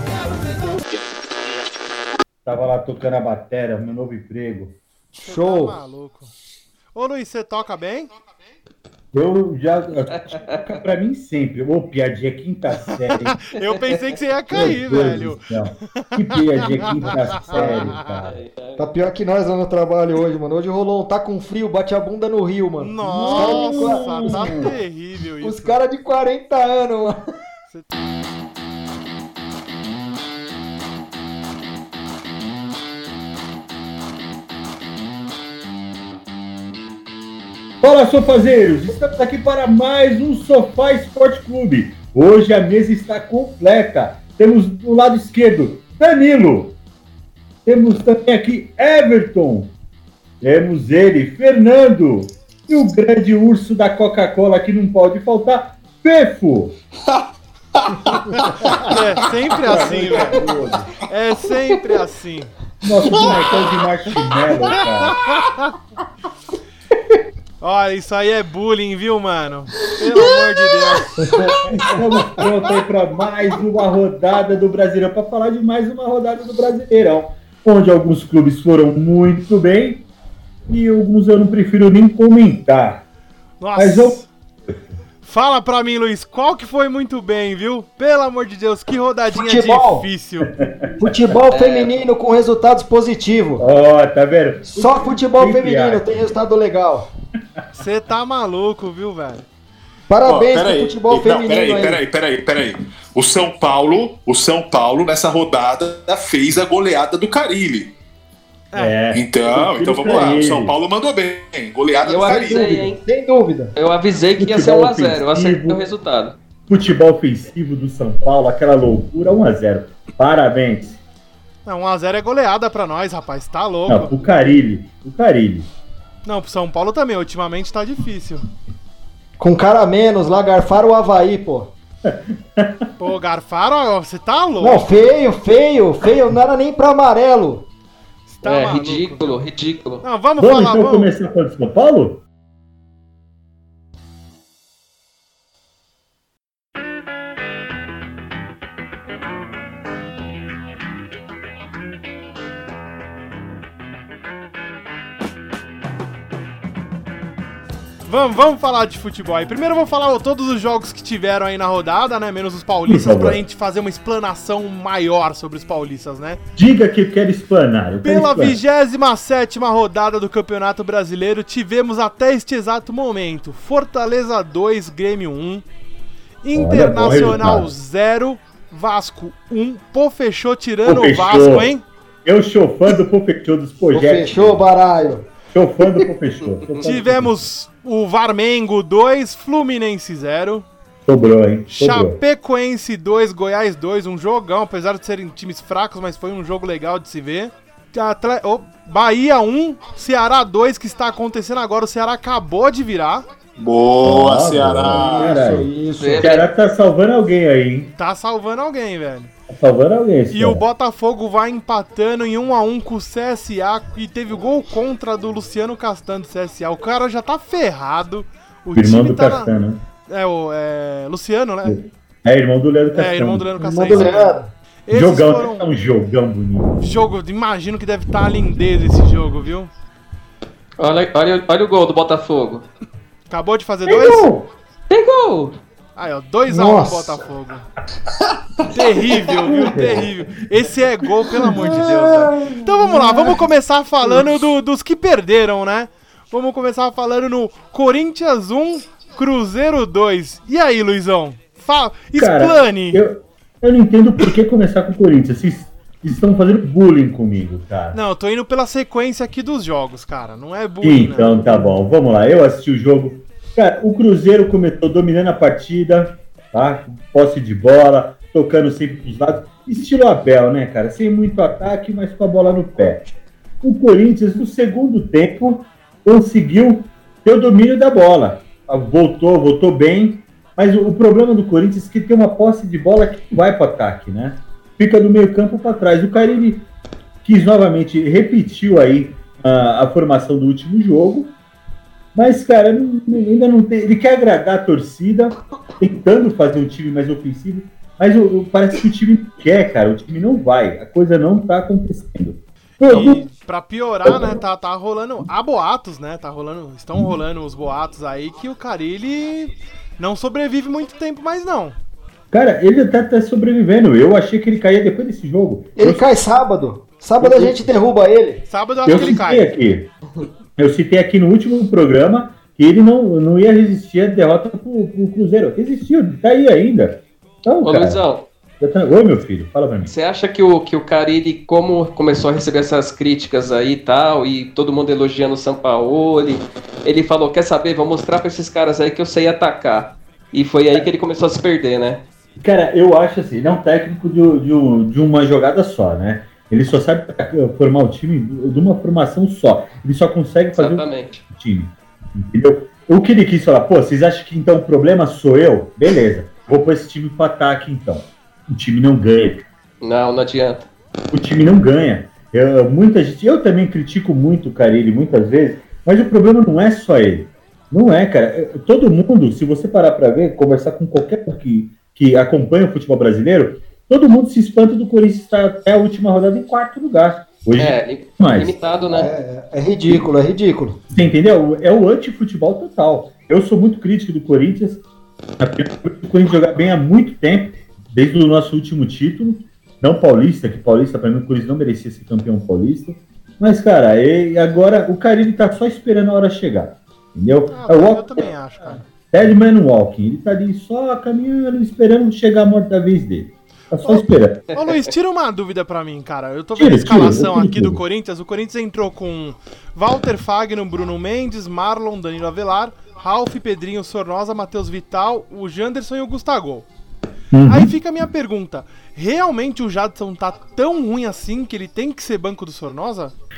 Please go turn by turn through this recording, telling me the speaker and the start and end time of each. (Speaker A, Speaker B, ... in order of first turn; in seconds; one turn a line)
Speaker A: 2.4-4.7
Speaker B: 5.2-5.8
Speaker C: 5.2-6.3
Speaker C: 6.9-8.1
Speaker A: 9.1-13.4
Speaker D: 10.3-10.6
Speaker C: 13.2-18.2
Speaker A: 14.5-18.4
Speaker B: 17.5-17.9
Speaker D: 18.2-18.8
Speaker B: 18.8-24.7
Speaker C: 22.8-25.8
Speaker A: 23.2-24.7
Speaker B: 25.4-27.2
Speaker A: 37.8-46.7
Speaker A: 47.6-49.7
Speaker A: 50.4-56.7
Speaker E: 57.8-59.2
Speaker C: 58.8-62.5
Speaker A: 59.5-61.0
Speaker A: 62.8-65.2
Speaker E: 63.0-64.5
Speaker C: 64.8-65.7
Speaker C: 67.6-71.4
Speaker A: 71.2-80.0
Speaker A: 80.7-83.0
Speaker C: 83.6-84.3
Speaker A: 83.8-84.2
Speaker C: 85.2-90.5
Speaker B: 89.3-90.1
Speaker B: 91.0-93.6
Speaker D: 91.5-91.9
Speaker A: 93.6-96.1
Speaker B: 94.7-97.1
Speaker C: 97.8-99.5
Speaker B: 100.1-102.0
Speaker E: 100.2-107.9
Speaker C: 108.7-109.0
Speaker A: 108.8-110.8
Speaker E: 109.1-112.9
Speaker D: 112.0-113.0
Speaker B: 112.2-113.7
Speaker D: 113.8-116.3
Speaker A: 114.4-115.8
Speaker A: 116.7-121.0
Speaker C: 121.7-124.4
Speaker A: 123.9-125.7
Speaker C: 126.2-128.5
Speaker B: 129.4-131.7
Speaker A: 132.0-132.9
Speaker C: 133.0-135.0
Speaker B: 134.6-137.6
Speaker C: 138.3-139.4
Speaker D: 138.4-140.0
Speaker C: 140.0-141.1
Speaker A: 140.4-142.2
Speaker C: 158.0-166.4
Speaker A: 162.8-163.4
Speaker A: 166.6-168.6
Speaker C: 168.0-175.6
Speaker C: 176.4-181.8
Speaker A: 176.5-177.7
Speaker A: 180.8-181.7
Speaker A: 182.2-184.7
Speaker B: 183.9-185.2
Speaker A: 185.5-187.3
Speaker C: 186.8-190.7
Speaker A: 191.1-192.2
Speaker C: 191.7-203.2
Speaker E: 203.6-205.3
Speaker A: 204.0-205.7
Speaker B: 204.9-206.4
Speaker D: 206.0-206.4
Speaker A: 206.2-207.9
Speaker C: 207.9-209.3
Speaker A: 209.5-210.6
Speaker C: 210.3-219.5
Speaker A: 218.8-219.8
Speaker C: 220.1-221.8
Speaker A: 221.6-224.1
Speaker C: 222.9-225.6
Speaker B: 223.6-224.5
Speaker A: 224.9-226.7
Speaker C: 226.8-229.7
Speaker D: 230.8-232.6
Speaker C: 233.3-234.3
Speaker A: 233.8-234.4
Speaker D: 234.9-235.6
Speaker C: 235.9-237.6
Speaker B: 236.5-237.2
Speaker C: 238.7-253.0
Speaker A: 239.4-240.1
Speaker A: 252.1-258.0
Speaker C: 257.9-261.4
Speaker A: 260.8-273.0
Speaker A: 273.6-286.6
Speaker A: 287.2-291.3
Speaker A: 292.1-303.3
Speaker C: 302.8-311.7
Speaker A: 304.0-304.4
Speaker A: 312.3-316.1
Speaker B: 315.8-318.4
Speaker A: 317.2-317.7
Speaker C: 318.5-319.5
Speaker A: 318.8-319.9
Speaker A: 320.6-328.0
Speaker D: 327.6-328.2
Speaker A: 328.6-329.9
Speaker D: 329.8-342.0
Speaker A: 342.4-359.4
Speaker D: 350.5-351.2
Speaker D: 359.8-360.6
Speaker A: 361.1-378.5
Speaker D: 377.6-379.1
Speaker B: 378.9-380.8
Speaker A: 380.9-384.8
Speaker A: 385.4-398.3
Speaker C: 397.5-398.8
Speaker A: 399.0-404.4
Speaker C: 403.8-416.7
Speaker A: 406.6-407.8
Speaker A: 417.3-417.7
Speaker C: 417.5-423.1